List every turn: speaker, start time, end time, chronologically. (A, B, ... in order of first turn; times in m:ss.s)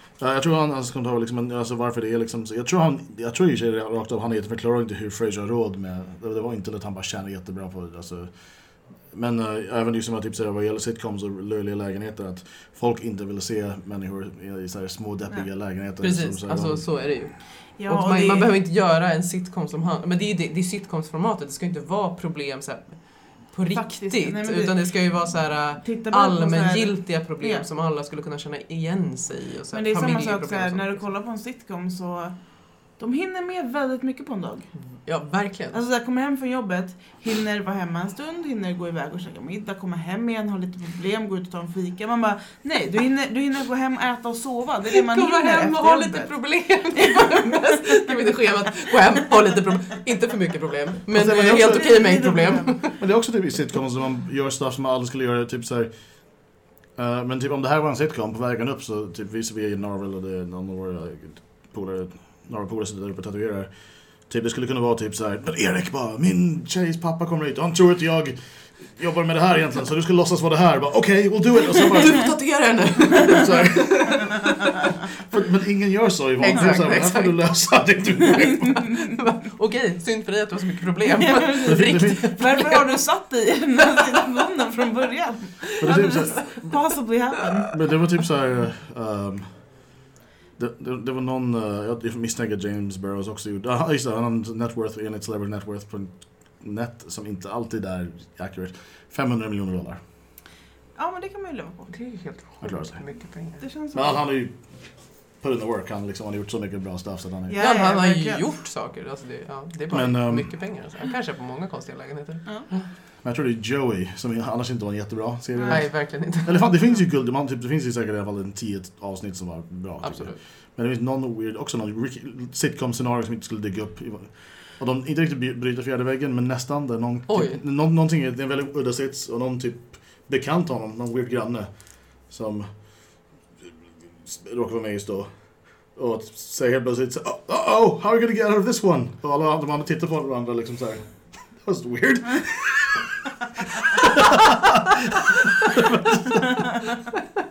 0:00.2-0:16.9 A
0:16.0-0:31.1 B
0:17.7-0:18.5 C
0:23.7-0:27.6 C
0:29.7-0:34.7 C
0:34.8-0:35.8 B
0:35.7-0:48.1 C
0:44.9-0:53.0 B
0:51.1-0:51.9 A
0:51.2-0:52.8 C
0:53.0-1:12.4 A
1:11.7-1:14.7 B
1:13.3-1:14.3 A
1:15.2-1:18.8 A
1:16.4-1:23.0 B
1:21.2-1:27.7 C
1:21.7-1:22.4 A
1:25.8-1:26.9 A
1:25.8-1:26.4 B
1:27.7-1:29.9 A
1:30.6-1:40.0 A
1:41.0-1:41.9 C
1:41.9-1:43.6 B
1:42.6-1:43.0 A
1:43.6-1:44.3 C
1:43.9-1:44.6 A
1:45.4-1:47.6 A
1:47.5-1:48.4 C
1:47.6-1:52.9 B
1:49.9-1:50.6 A
1:53.2-2:13.7 A
1:55.6-1:55.9 C
1:55.7-1:56.9 B
2:00.0-2:00.4 B
2:07.3-2:07.6 B
2:14.2-2:23.1 A
2:24.0-2:24.9 A
2:25.6-2:26.5 A